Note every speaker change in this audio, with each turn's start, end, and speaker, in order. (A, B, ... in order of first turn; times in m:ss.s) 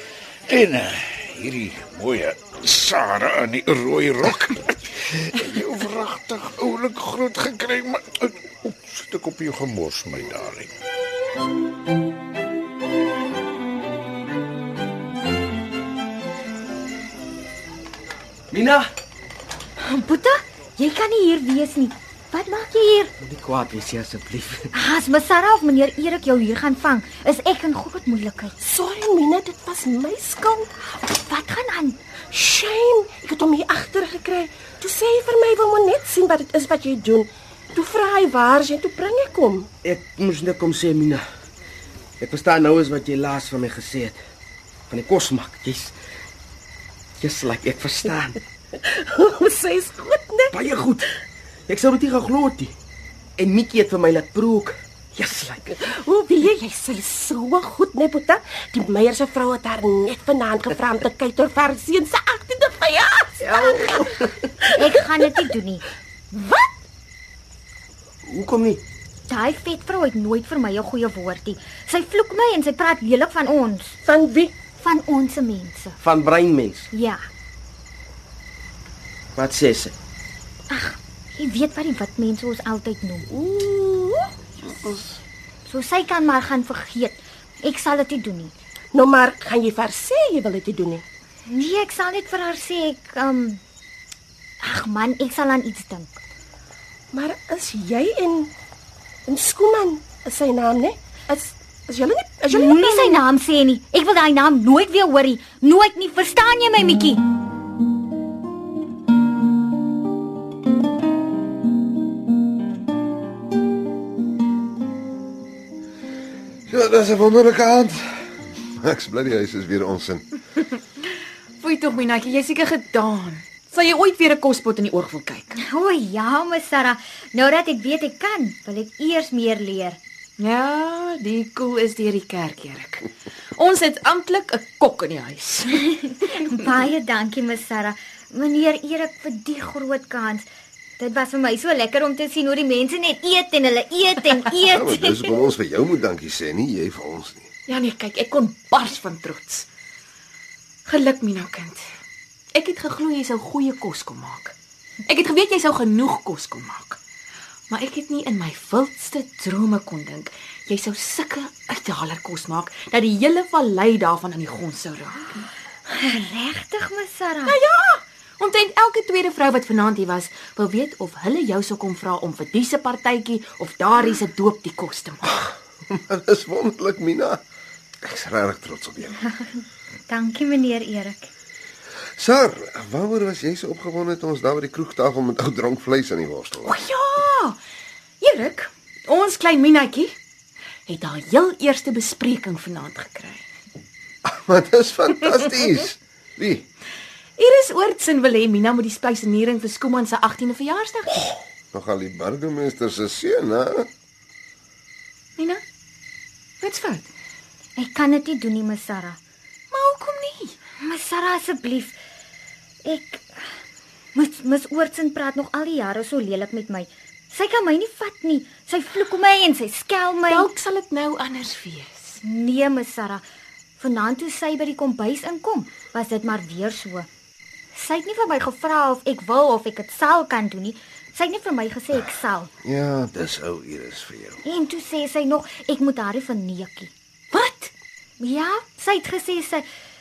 0:00.5-0:10.7 A
0:18.5-0:18.9 B
0:19.8-0:23.1 C
0:23.2-0:24.7 B
0:24.7-0:28.6 C
0:28.6-0:30.7 D
0:30.8-0:32.0 C
0:32.3-0:39.7 D
0:39.8-0:41.2 B
0:42.2-0:44.2 B
0:44.9-0:45.9 B
0:47.2-0:48.4 B
0:48.9-0:50.5 D
0:50.5-0:51.1 B
0:51.7-0:52.7 B
0:53.4-0:55.8 B
0:55.2-1:04.1 D
1:03.4-1:03.8 C
1:03.7-1:04.0 B
1:04.8-1:05.8 C
1:06.3-1:06.7 D
1:08.3-1:08.8 B
1:09.3-1:13.9 C
1:14.0-1:14.5 D
1:14.8-1:16.0 C
1:16.0-1:16.9 B
1:16.9-1:17.2 C
1:19.4-1:19.9 B
1:20.7-1:23.2 C
1:23.3-1:24.3 D
1:25.7-1:28.5 C
1:28.9-1:31.0 D
1:31.5-1:33.6 C
1:34.6-1:36.1 C
1:37.1-1:38.5 D
1:39.2-1:43.2 D
1:42.5-1:47.2 C
1:56.7-1:58.0 E
1:58.8-2:00.2 E
2:01.6-2:05.6 F
2:05.6-2:10.0 C
2:10.4-2:13.0 F
2:13.6-2:16.6 F
2:16.0-2:20.4 C
2:21.0-2:25.4 C
2:24.7-2:27.5 E
2:27.7-2:29.6 F
2:30.8-2:31.8 F
2:32.5-2:34.5 F
2:35.1-2:37.0 F
2:37.7-2:45.4 F
2:45.9-2:47.6 C
2:47.4-2:55.4 F
2:55.9-2:57.4 E
2:58.0-2:59.2 E
3:00.1-3:01.3 C
3:02.2-3:06.8 E
3:06.6-3:07.6 F
3:08.2-3:10.1 F
3:10.9-3:13.4 F
3:14.2-3:16.6 E
3:17.4-3:21.3 F
3:21.7-3:23.9 E
3:25.4-3:25.6 F
3:26.6-3:27.1 F
3:27.8-3:29.2 C
3:29.7-3:30.5 F
3:30.8-3:32.0 C
3:32.8-3:33.3 C
3:34.1-3:40.5 C
3:40.3-3:42.2 F
3:42.2-3:43.2 C
3:43.8-3:47.1 C
3:47.7-3:52.5 C
3:52.6-3:54.4 E
3:54.4-3:56.9 C
3:57.3-3:57.7 F
3:58.2-3:59.6 C